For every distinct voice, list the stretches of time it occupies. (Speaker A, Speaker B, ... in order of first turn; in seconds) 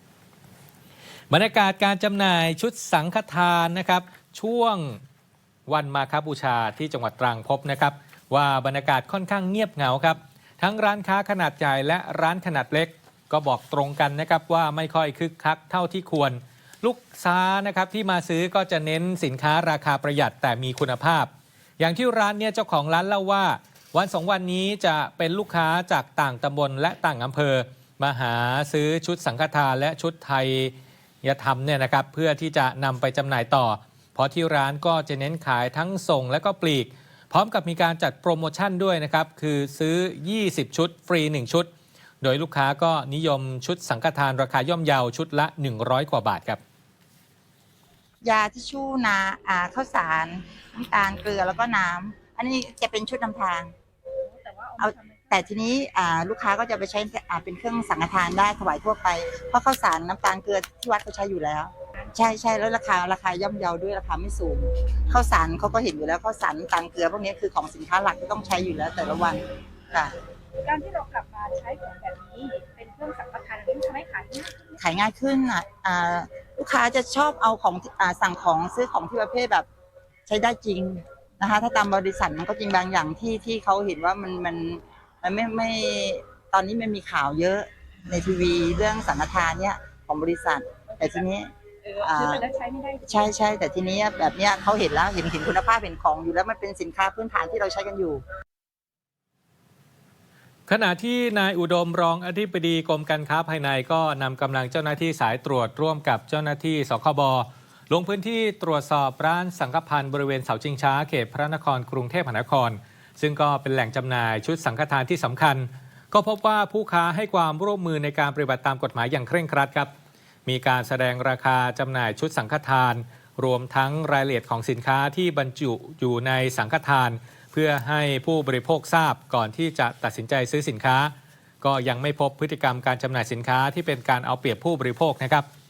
Speaker A: 1.3-5.0, 5.7-41.7, 42.2-46.6, 100.7-119.9, 120.5-135.5
Speaker B: 48.2-53.7, 54.8-70.2, 74.8-79.7, 80.3-92.4, 93.1-98.2
Speaker C: 54.3-55.3, 70.6-74.8, 91.8-93.6